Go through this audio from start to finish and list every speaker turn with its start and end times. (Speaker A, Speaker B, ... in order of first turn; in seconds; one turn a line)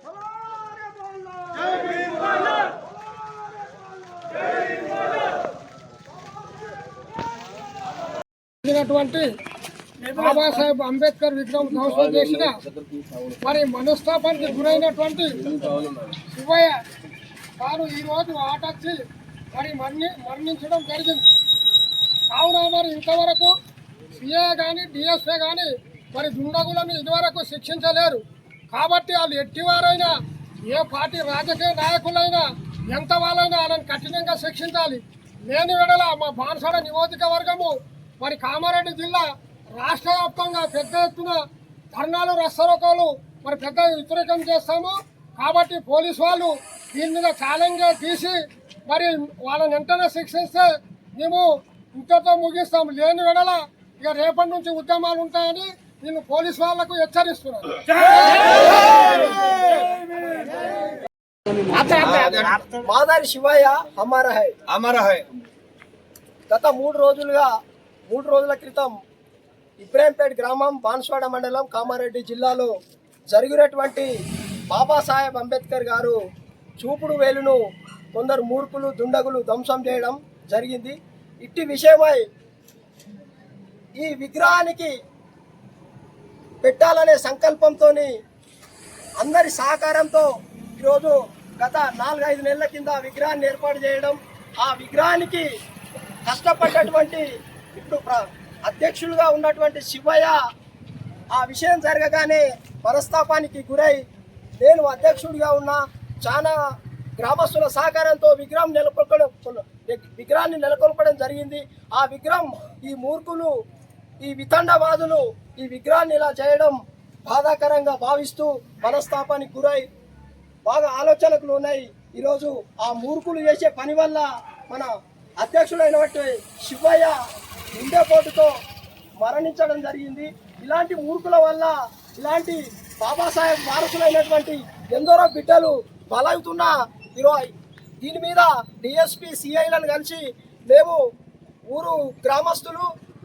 Speaker A: 0.2-2.6
Speaker B: 8.6-9.3
Speaker B: 10.1-12.6
Speaker C: 11.8-13.4
Speaker B: 13.4-15.5
Speaker C: 15.4-16.2
Speaker B: 16.3-16.8
Speaker B: 17.6-19.0
Speaker B: 19.5-21.3
Speaker B: 22.3-23.5
Speaker B: 24.1-30.1
Speaker B: 30.7-41.4
Speaker B: 41.9-59.5
Speaker C: 61.8-62.6
Speaker A: 62.6-64.6
Speaker C: 64.7-65.3
Speaker A: 66.5-67.5
Speaker A: 68.1-69.0
Speaker A: 69.8-72.7
Speaker A: 73.3-74.1
Speaker A: 74.7-76.2
Speaker A: 76.8-82.3
Speaker A: 84.0-85.0
Speaker A: 86.6-88.2
Speaker A: 89.2-95.5
Speaker A: 96.2-100.4
Speaker A: 101.3-104.0
Speaker A: 104.6-106.6
Speaker A: 107.2-113.6
Speaker A: 114.2-119.9
Speaker A: 120.6-127.2
Speaker A: 127.7-128.6
Speaker A: 129.2-141.0
Speaker A: 141.7-142.9